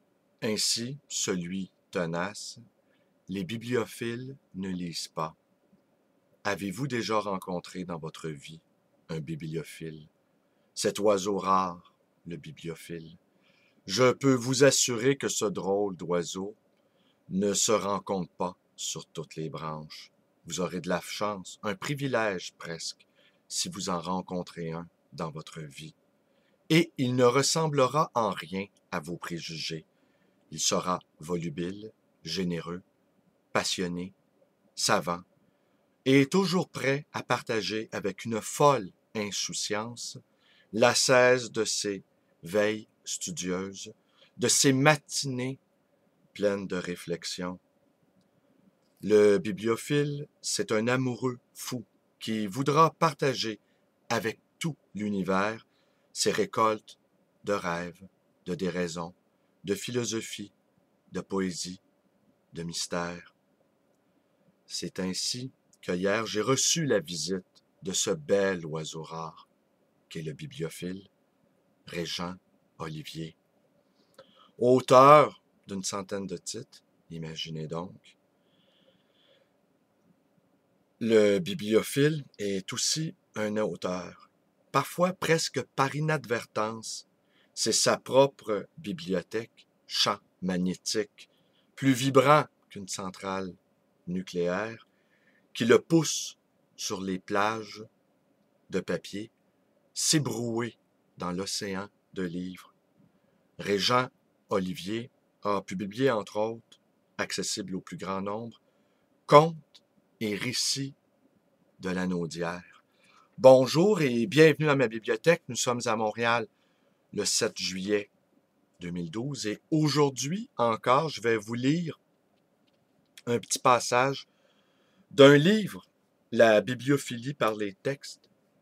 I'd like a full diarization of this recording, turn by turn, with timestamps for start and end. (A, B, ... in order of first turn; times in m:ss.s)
0:00.4-0:02.6 A
0:03.3-0:05.4 A
0:06.4-0:10.1 A
0:10.8-0:13.2 A
0:13.9-0:16.6 A
0:17.3-0:26.0 A
0:26.7-0:29.9 A
0:30.5-0:32.8 A
0:33.5-0:34.2 A
0:34.8-0:35.3 A
0:36.0-0:40.2 A
0:40.7-0:45.6 A
0:46.3-0:47.6 A
0:49.0-1:00.5 A
1:01.1-1:01.8 A
1:02.5-1:03.3 A
1:04.7-1:09.5 A
1:10.1-1:11.1 A
1:11.9-1:13.4 A
1:14.6-1:18.2 A
1:21.0-1:34.9 A
1:35.5-1:37.9 A
1:38.7-1:39.3 A
1:39.9-1:42.7 A
1:43.6-1:48.6 A
1:49.3-1:51.0 A
1:51.8-1:52.8 A
1:53.4-1:56.5 A
1:57.1-1:58.1 A
1:58.8-2:02.0 A
2:03.3-2:04.3 A
2:05.1-2:08.3 A